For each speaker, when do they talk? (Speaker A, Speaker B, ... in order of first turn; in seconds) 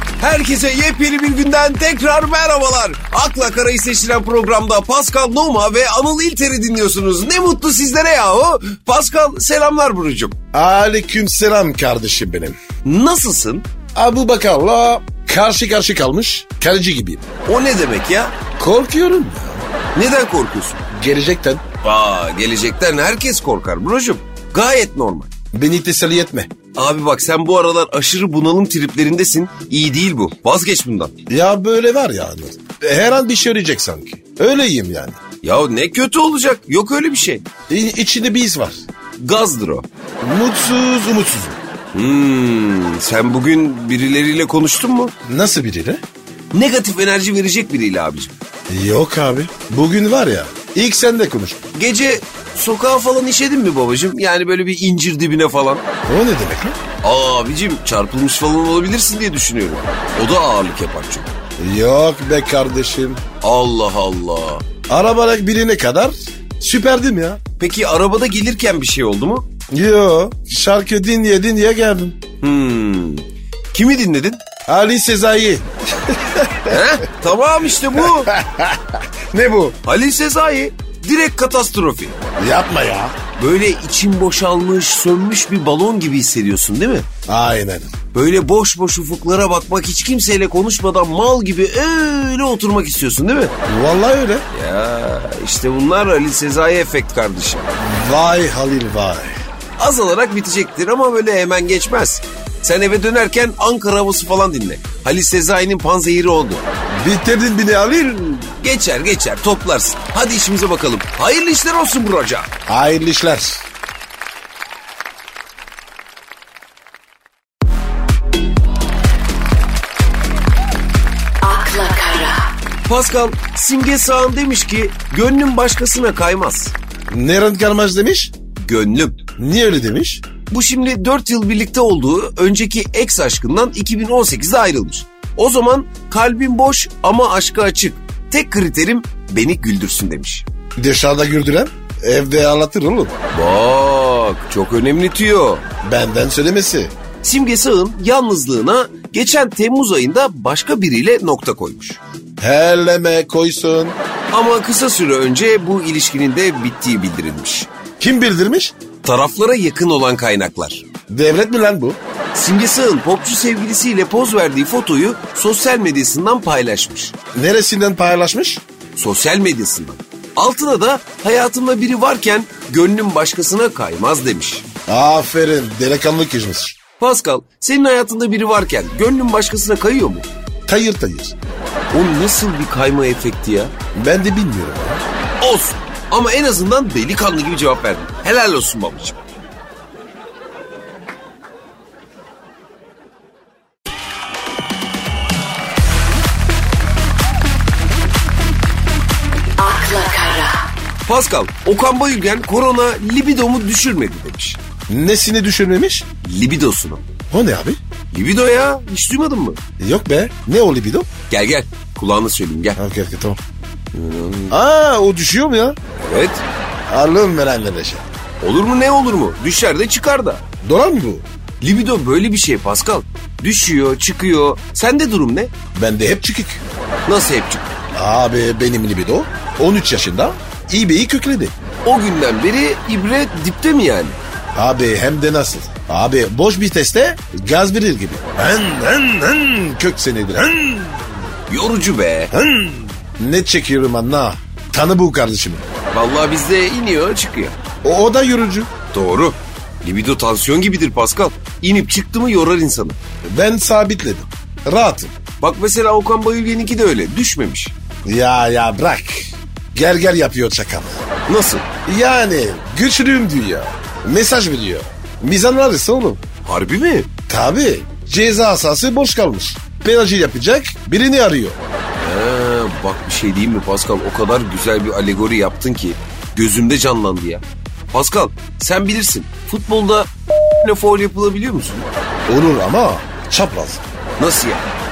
Speaker A: 0.2-10.3, 12.8-13.6, 17.4-18.4, 19.9-20.8, 21.8-25.3, 26.7-31.1, 35.4-37.4, 39.2-39.9, 41.9-45.1, 46.5-48.3, 51.7-55.8, 57.0-61.4, 63.4-64.6, 67.6-69.5, 72.4-74.4, 76.7-78.3, 79.8-82.2, 83.4-87.1, 88.1-93.5, 94.5-97.7, 99.8-106.6, 108.6-112.5, 122.9-126.7, 128.6-129.2, 130.5-140.4, 143.3-145.6, 147.2-152.0, 154.3-157.7, 159.0-160.8, 162.3-167.1, 168.9-174.6, 177.0-180.3, 181.9-183.7, 185.4-189.2, 201.0-204.6, 206.2-207.0, 208.1-209.6, 211.3-212.8, 213.9-214.6, 215.9-216.4, 218.4-220.4, 221.6-225.5, 227.1-227.7, 231.8-234.2, 241.5-242.3, 245.9-247.5, 248.9-253.0, 255.4-257.7, 261.3-261.6, 266.4-267.1, 272.0-281.9, 284.2-284.7
Speaker B: 10.5-12.6, 13.9-17.2, 18.6-19.6, 20.9-21.6, 25.5-26.5, 31.3-35.2, 37.7-38.8, 40.2-41.6, 45.2-46.0, 48.7-51.6, 56.0-56.8, 61.6-63.2, 64.9-67.4, 69.7-72.2, 74.7-76.8, 78.0-79.8, 82.4-83.2, 87.3-87.9, 93.7-94.4, 97.8-99.4, 106.9-108.5, 112.7-113.6, 127.1-128.3, 129.4-130.2, 140.8-143.1, 145.8-146.9, 152.4-154.0, 158.0-158.7, 161.1-162.0, 167.3-168.6, 174.9-176.8, 180.7-181.3, 183.9-185.0, 204.9-206.1, 207.3-207.8, 209.8-211.1, 212.8-213.4, 214.5-215.8, 216.9-218.1, 220.6-221.2, 225.7-226.6, 227.9-231.5, 234.5-241.1, 242.3-245.6, 247.8-248.7, 253.2-255.1, 258.0-260.9, 261.9-266.2, 267.3-271.6, 282.3-283.8
Speaker C: 121.4-122.4, 199.6-200.6